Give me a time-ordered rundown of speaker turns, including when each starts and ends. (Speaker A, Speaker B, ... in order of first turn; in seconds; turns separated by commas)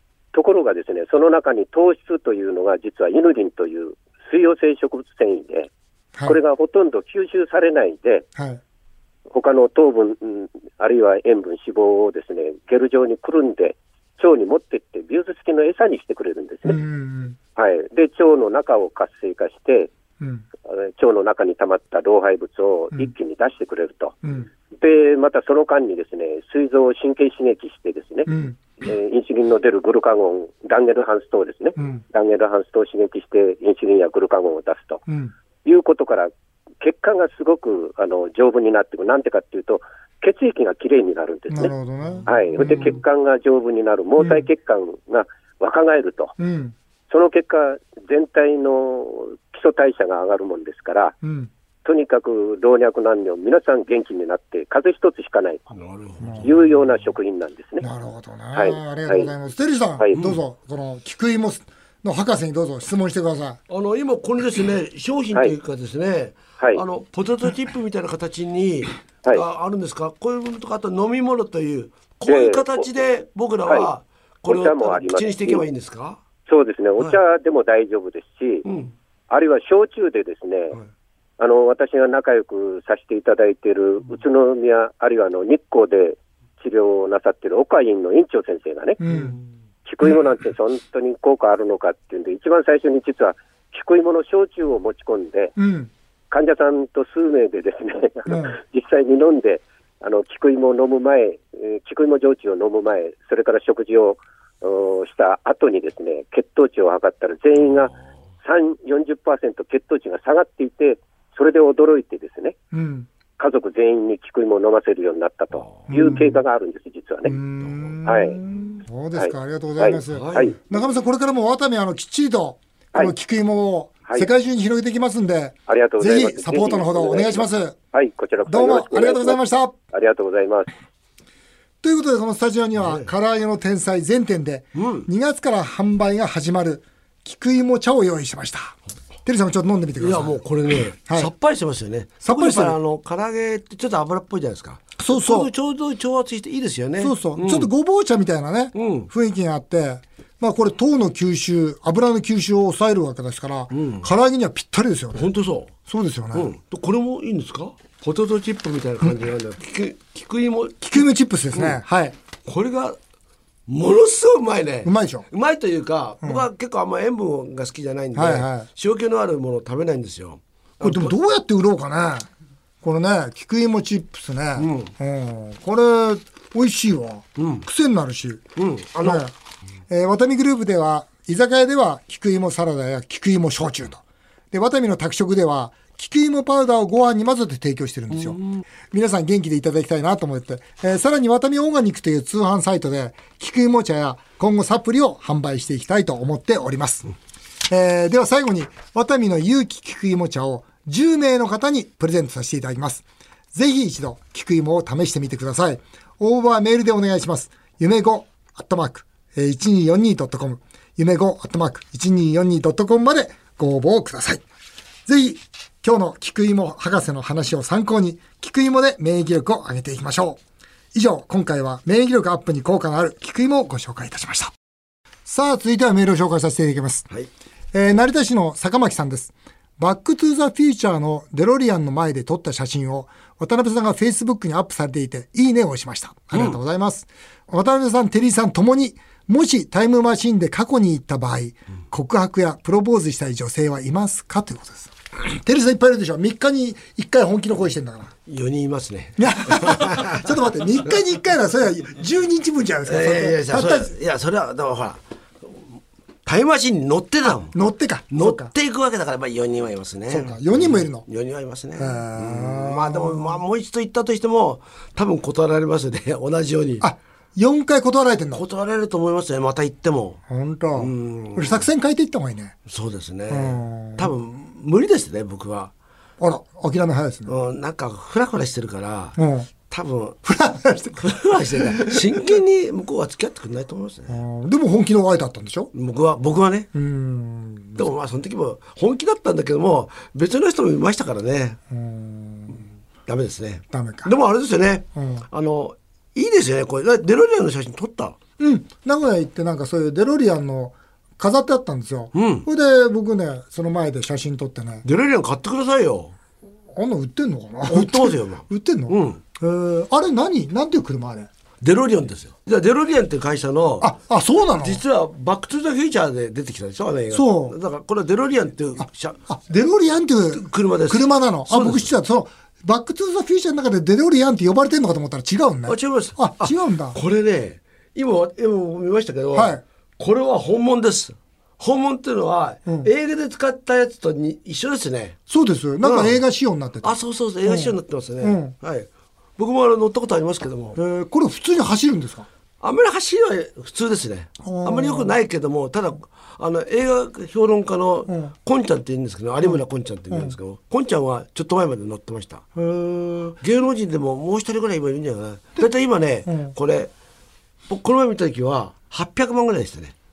Speaker A: 0.3-5.7, Speaker A: 6.3-8.3, Speaker A: 9.3-16.8, Speaker B: 16.6-17.4, Speaker A: 17.6-19.9, Speaker A: 20.7-24.2, Speaker A: 24.7-28.3, Speaker B: 28.3-28.6, Speaker A: 28.8-35.0, Speaker B: 31.8-32.0, Speaker B: 35.1-35.3, Speaker A: 35.6-41.7, Speaker B: 41.5-43.0, Speaker A: 42.3-46.4, Speaker B: 46.4-46.8, Speaker A: 47.1-51.2, Speaker B: 51.2-51.5, Speaker A: 51.9-55.7, Speaker C: 55.7-56.5, Speaker B: 56.2-56.5, Speaker A: 56.4-57.8, Speaker B: 57.8-63.6, Speaker A: 58.5-59.3, Speaker C: 63.7-76.2, Speaker A: 72.3-72.9, Speaker A: 74.5-75.6, Speaker A: 76.5-78.7, Speaker C: 78.7-78.9, Speaker A: 79.3-80.8, Speaker A: 81.4-89.0, Speaker B: 89.0-89.4, Speaker A: 89.8-95.6, Speaker B: 95.6-95.9, Speaker A: 96.3-112.6, Speaker B: 98.3-98.6, Speaker B: 112.7-113.1, Speaker A: 113.4-117.3, Speaker B: 115.9-116.4, Speaker B: 117.2-127.8, Speaker A: 118.0-118.4, Speaker A: 119.2-120.6, Speaker C: 120.1-120.6, Speaker A: 125.7-129.4, Speaker B: 128.5-129.8, Speaker A: 129.9-130.7, Speaker B: 131.8-140.4, Speaker C: 132.8-133.1, Speaker C: 134.8-135.1, Speaker C: 140.0-147.7, Speaker B: 141.1-141.3, Speaker B: 142.2-142.8, Speaker B: 145.0-145.5, Speaker B: 147.0-155.3, Speaker C: 148.8-149.1, Speaker C: 153.7-154.1, Speaker C: 155.1-155.7, Speaker B: 155.9-156.5, Speaker C: 156.3-161.0, Speaker B: 160.8-162.2, Speaker C: 161.5-161.8, Speaker C: 162.4-163.0, Speaker C: 163.7-171.1, Speaker B: 164.8-165.3, Speaker B: 168.2-168.7, Speaker B: 170.8-172.3, Speaker B: 172.8-178.4, Speaker C: 174.6-174.9, Speaker C: 177.4-177.7, Speaker C: 178.6-179.2, Speaker B: 179.0-179.3, Speaker B: 179.9-188.4, Speaker C: 188.1-188.6, Speaker B: 188.9-197.1, Speaker B: 197.7-214.4, Speaker B: 215.1-220.4, Speaker B: 220.9-224.5, Speaker B: 225.3-227.1, Speaker B: 227.7-248.1, Speaker C: 236.3-236.6, Speaker C: 248.3-250.3, Speaker B: 249.2-253.9, Speaker C: 252.9-255.6, Speaker C: 256.2-257.6, Speaker B: 257.5-258.5, Speaker C: 258.1-266.9, Speaker B: 260.1-261.1, Speaker B: 261.8-263.4, Speaker B: 266.8-268.4, Speaker C: 268.3-270.2, Speaker B: 270.3-272.6, Speaker C: 270.8-271.7, Speaker C: 272.7-275.7, Speaker B: 273.3-274.1, Speaker B: 276.2-277.3, Speaker C: 277.3-280.2, Speaker B: 279.2-279.5, Speaker B: 280.2-282.2, Speaker C: 281.0-284.2, Speaker B: 284.1-285.7, Speaker C: 285.7-286.7, Speaker B: 286.7-287.9, Speaker C: 287.8-291.6, Speaker B: 291.7-292.6, Speaker C: 293.1-298.2, Speaker B: 293.7-294.1, Speaker B: 294.9-295.2, Speaker B: 298.4-304.9, Speaker C: 302.1-302.5, Speaker C: 304.8-306.1, Speaker B: 306.8-311.3, Speaker C: 307.7-309.2, Speaker C: 311.6-313.9, Speaker B: 313.8-314.8, Speaker C: 314.6-319.2, Speaker B: 317.1-317.6, Speaker B: 319.3-327.0, Speaker C: 320.3-321.9, Speaker C: 325.7-335.2, Speaker B: 329.3-329.6, Speaker B: 335.3-338.5, Speaker C: 335.8-336.2, Speaker C: 336.8-340.8, Speaker B: 340.8-342.3, Speaker C: 342.6-352.4, Speaker B: 344.4-345.1, Speaker B: 348.1-348.3, Speaker B: 352.6-353.4, Speaker C: 353.4-356.9, Speaker B: 356.3-356.5, Speaker C: 357.7-359.9